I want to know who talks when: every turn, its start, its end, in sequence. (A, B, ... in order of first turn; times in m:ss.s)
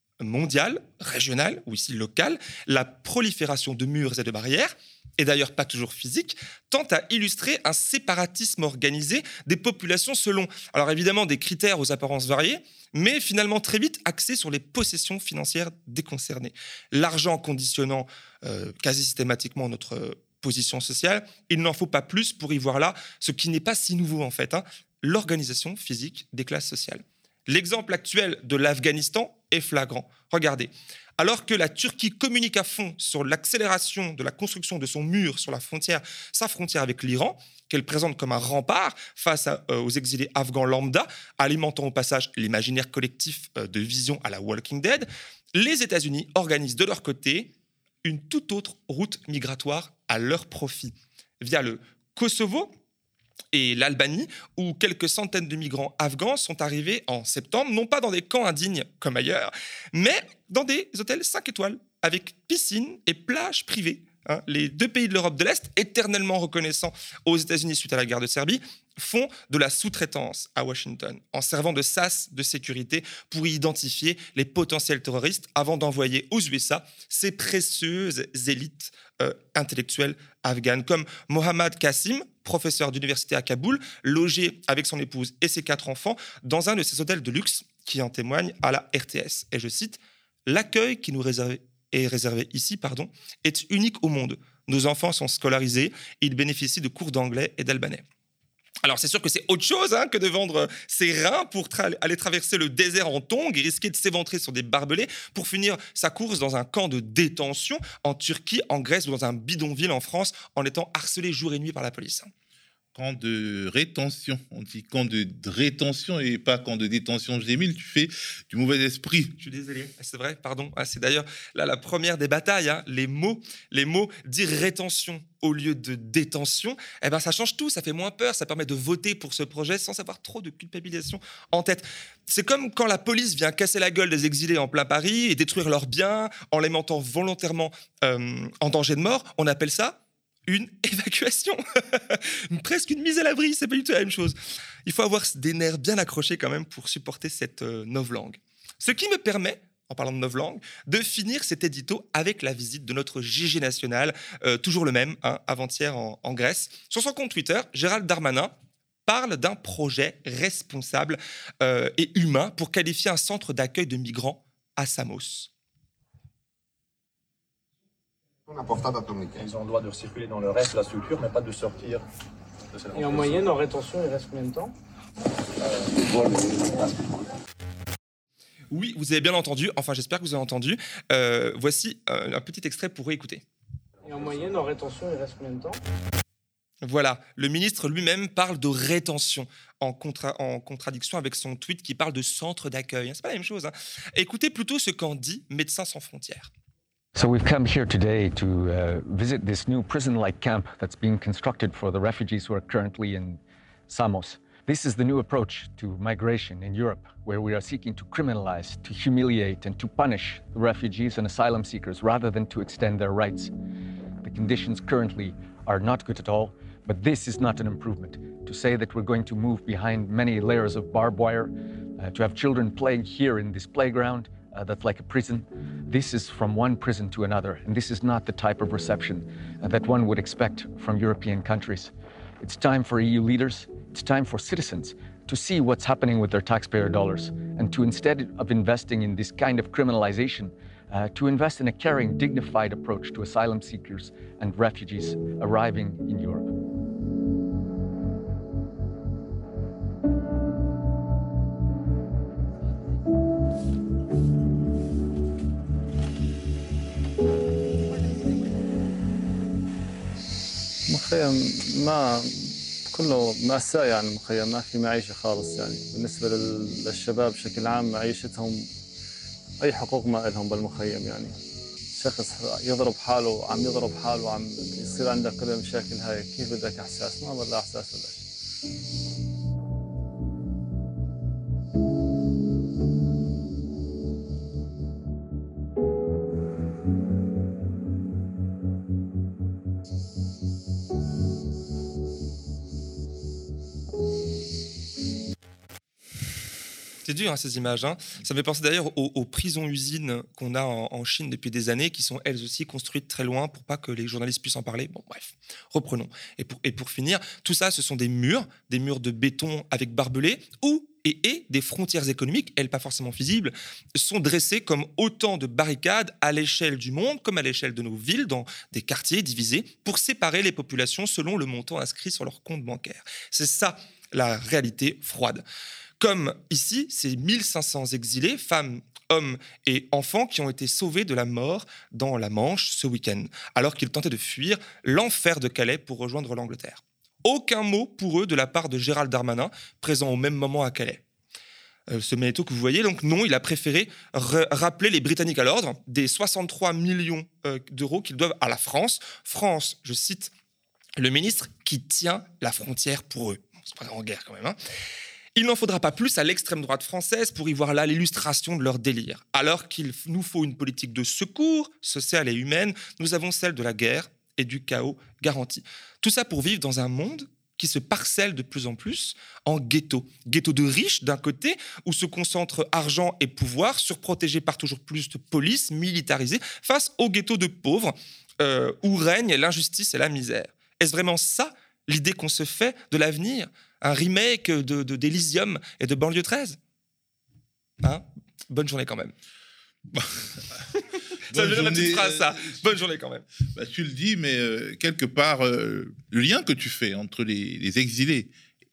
0:00.2-0:47.5 A
0:48.0-0:52.7 A
0:53.5-1:38.0 A
1:38.8-1:52.3 A
1:53.0-1:59.3 B
1:59.4-2:38.5 A
2:39.1-2:45.5 A
2:48.5-2:52.0 C
2:52.8-2:53.3 C
2:52.9-2:54.7 D
2:55.6-2:57.3 C
2:58.7-3:03.4 A
3:04.0-3:05.8 D
3:06.8-3:16.5 A
3:17.2-3:33.5 E
3:34.2-4:06.5 E
4:20.9-4:28.7 F
4:29.6-4:31.4 F
4:31.9-4:38.2 F
4:57.0-5:25.4 A
5:26.0-5:41.0 A
5:41.9-5:50.3 A
5:51.0-5:54.6 A
5:55.4-6:26.6 A
6:27.8-6:29.1 A
6:29.9-6:30.3 B
6:31.3-6:32.8 B
6:31.3-6:33.3 A
6:33.5-6:38.3 B